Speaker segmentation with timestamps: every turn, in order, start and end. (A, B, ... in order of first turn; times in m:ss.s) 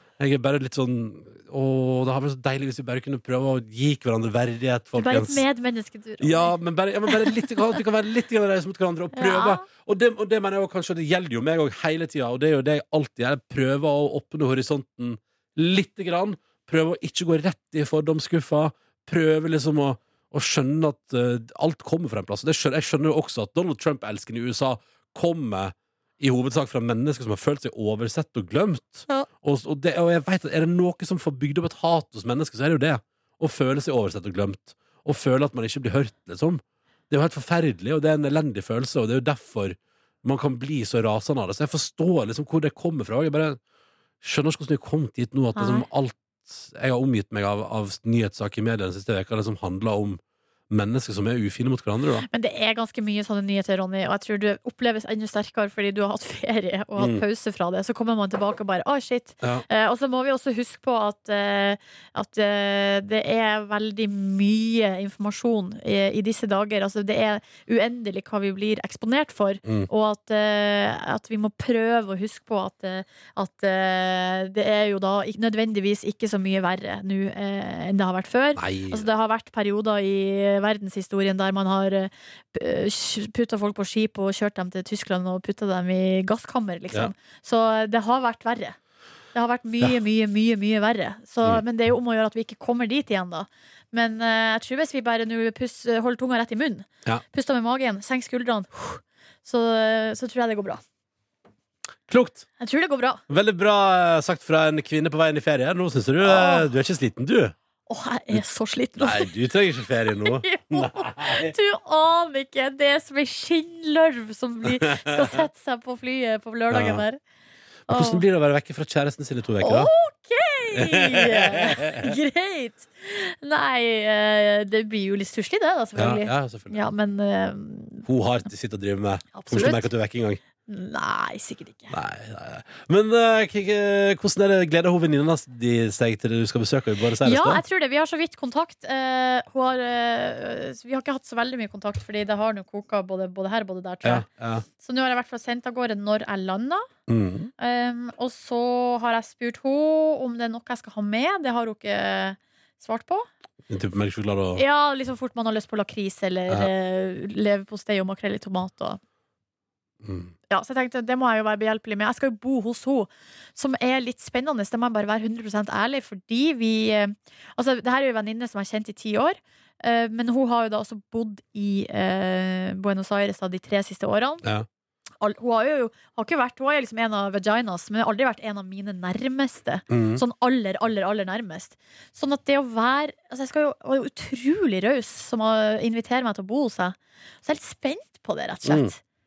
0:00.2-0:05.4 A
0:05.0-0:06.6 B
0:06.2-0:43.6 A
0:07.1-0:07.5 B
0:09.1-0:09.6 B
0:44.2-0:52.3 A
0:45.6-0:45.8 B
0:52.2-1:28.8 B
0:57.0-0:57.2 A
1:18.6-1:19.1 A
1:29.3-1:40.8 B
1:42.1-1:42.4 A
1:42.6-1:43.2 B
1:43.3-1:47.5 A
1:46.2-1:46.7 B
1:47.9-1:49.3 B
1:49.0-1:51.5 A
1:50.1-1:57.2 B
1:54.8-1:55.4 A
1:56.7-1:57.0 A
1:57.9-1:59.9 A
1:57.9-1:58.2 B
1:59.6-2:08.0 B
2:00.7-2:02.2 A
2:06.0-2:06.8 A
2:08.0-2:10.4 A
2:09.3-2:09.9 B
2:10.7-2:12.0 B
2:11.9-2:17.6 A
2:17.2-2:24.2 B
2:24.0-2:24.6 A
2:24.8-2:26.9 B
2:27.1-2:27.5 A
2:27.6-2:33.3 B
2:33.7-2:34.6 A
2:34.6-2:39.0 B
2:40.0-2:40.3 A
2:40.5-2:54.4 B
2:55.2-3:09.0 B
2:59.9-3:00.2 A
3:08.6-3:08.9 A